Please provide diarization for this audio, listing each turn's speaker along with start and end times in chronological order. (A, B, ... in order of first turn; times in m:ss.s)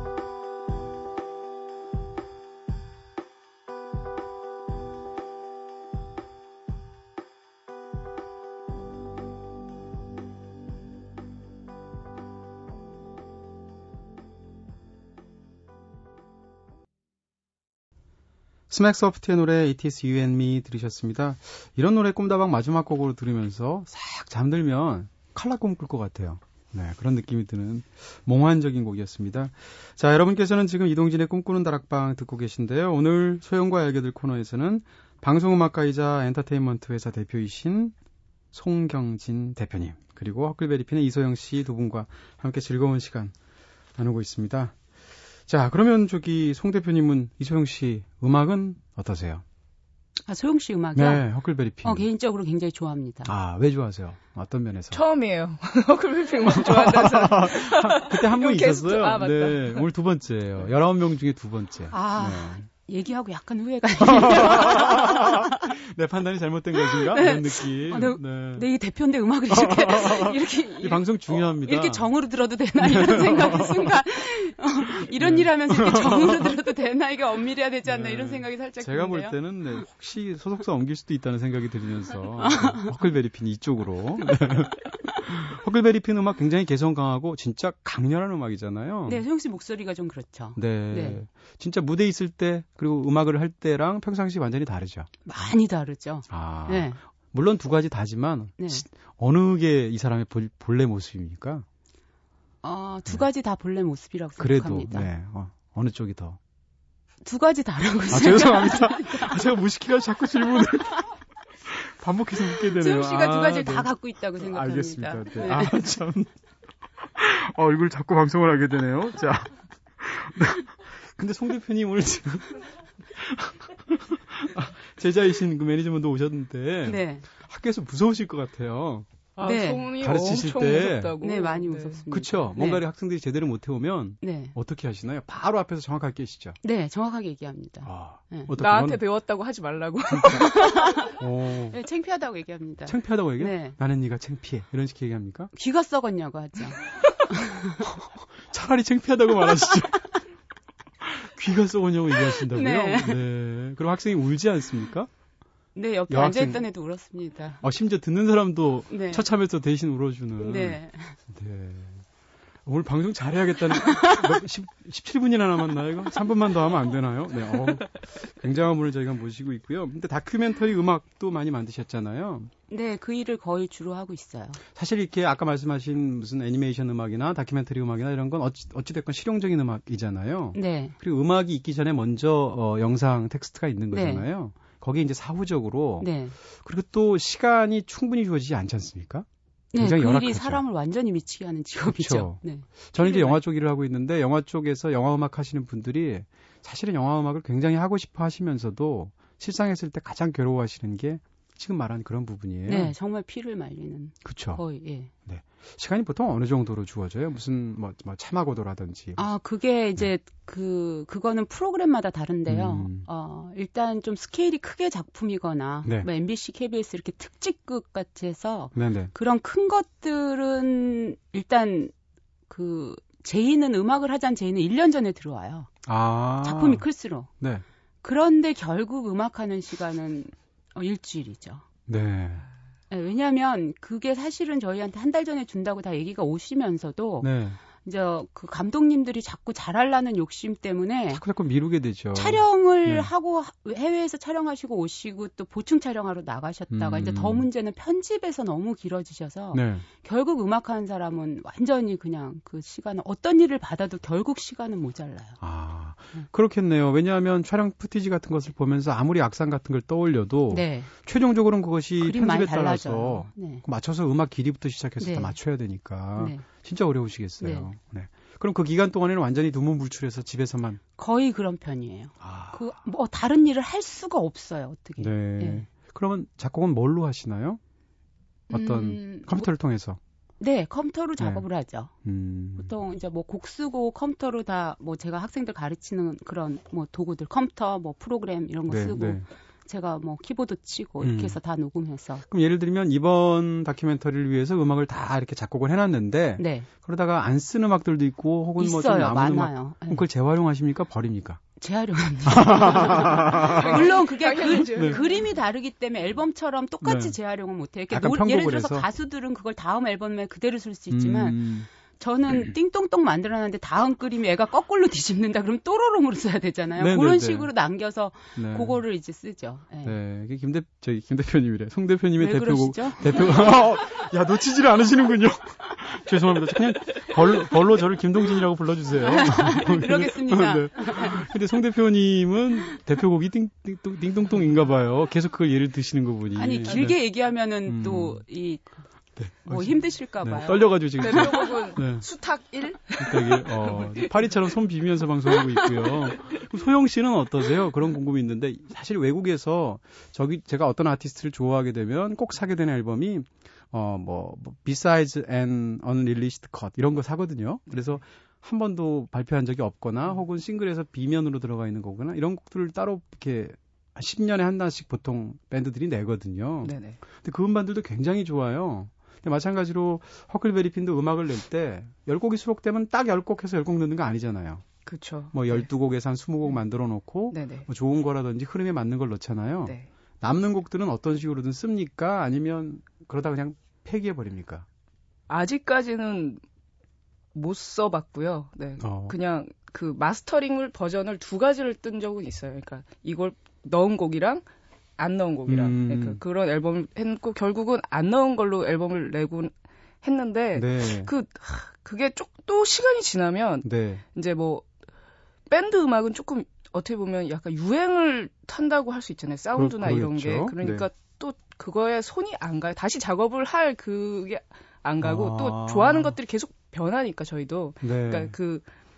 0:18.7-0:38.0 A
0:38.5-0:43.3 A
0:44.0-0:44.8 A
0:45.5-0:49.4 A
0:50.3-0:51.3 B
0:51.0-0:52.1 A
0:51.8-0:53.3 B
0:53.3-0:55.0 A
0:54.9-0:59.9 C
0:56.5-1:02.6 A
1:01.9-1:05.6 B
1:04.0-1:08.7 A
1:06.9-1:19.4 B
1:09.5-1:12.1 A
1:12.8-1:14.0 A
1:15.0-1:16.6 A
1:17.8-1:29.2 A
1:22.4-1:22.9 B
1:29.1-1:31.2 B
1:30.6-1:35.1 A
1:35.3-1:37.0 B
1:36.3-1:41.7 A
1:38.6-1:38.8 B
1:42.6-1:45.1 B
1:44.4-1:46.4 A
1:47.2-1:49.4 B
1:48.1-1:51.1 A
1:51.6-1:56.3 A
1:52.6-1:55.8 B
1:57.0-2:09.1 A
2:06.8-2:07.3 B
2:09.4-2:12.0 C
2:09.4-2:09.9 B
2:10.0-2:11.2 A
2:11.2-2:12.8 B
2:12.1-2:16.6 A
2:14.2-2:14.6 B
2:16.6-2:18.5 B
2:17.8-2:19.0 A
2:18.6-2:20.7 C
2:20.1-2:20.5 A
2:20.6-2:21.1 B
2:21.2-2:21.8 A
2:21.7-2:23.8 B
2:22.9-2:25.5 A
2:25.6-2:27.9 B
2:27.8-2:30.2 A
2:31.0-2:35.1 A
2:32.4-2:33.2 B
2:35.8-2:37.6 B
2:36.1-2:36.7 A
2:37.6-2:42.0 A
2:38.9-2:39.3 B
2:40.4-2:41.2 B
2:42.7-2:52.5 A
2:43.9-2:44.2 B
2:52.7-2:54.6 B
2:54.7-3:10.6 A
3:00.5-3:01.0 B
3:03.9-3:04.3 B
3:06.0-3:06.4 B
3:09.7-3:13.4 B
3:11.8-3:22.9 A
3:22.7-3:25.1 B
3:24.2-3:24.6 A
3:25.3-3:29.2 A
3:29.2-3:41.9 B
3:32.5-3:33.1 A
3:35.8-3:36.1 A
3:38.8-3:39.1 A
3:42.5-3:45.7 B
3:45.9-3:46.8 A
3:46.4-3:47.3 B
3:48.0-3:51.6 B
3:51.9-3:52.5 A
3:52.9-3:57.3 B
3:57.2-3:57.6 A
3:57.8-4:01.2 B
4:01.1-4:03.1 A
4:02.1-4:15.4 B
4:06.7-4:07.5 A
4:09.5-4:09.9 A
4:15.4-4:30.8 A
4:20.5-4:20.9 B
4:22.0-4:23.6 B
4:25.0-4:25.4 B
4:26.2-4:26.4 B
4:27.4-4:27.7 B
4:31.0-4:35.6 B
4:32.2-4:32.7 A
4:35.0-4:37.6 A
4:38.5-4:39.5 B
4:38.5-4:40.0 A
4:40.4-4:41.9 B
4:41.2-4:41.4 A
4:42.0-4:42.8 A
4:42.6-4:52.2 B
4:48.7-4:49.3 A
4:51.0-4:51.4 A
4:52.3-5:01.4 A
4:56.4-4:56.7 B
4:58.6-5:00.0 B
5:01.6-5:11.4 B
5:02.2-5:03.9 A
5:03.4-5:05.3 C
5:04.7-5:05.0 A
5:06.8-5:07.2 A
5:07.9-5:08.9 A
5:10.9-5:11.7 A
5:12.0-5:20.0 B
5:16.8-5:17.5 A
5:18.4-5:18.8 A
5:19.8-5:37.0 A
5:22.2-5:23.2 B
5:29.0-5:31.2 B
5:36.4-5:38.8 B
5:37.7-5:38.2 A
5:39.2-5:42.1 A
5:39.4-5:41.4 B
5:41.0-5:44.1 C
5:43.0-6:14.6 A
5:45.4-5:46.3 C
6:06.6-6:07.0 C
6:14.9-6:15.7 C
6:15.3-6:24.7 A
6:17.3-6:17.7 C
6:25.3-6:26.4 C
6:27.4-6:34.4 C
6:28.8-6:29.2 A
6:35.0-6:39.5 C
6:35.5-6:36.2 A
6:40.0-6:44.7 C
6:40.6-6:41.1 A
6:43.6-6:44.0 A
6:45.5-6:58.6 C
6:49.6-6:50.9 A
6:55.0-6:56.2 A
6:57.8-6:58.4 A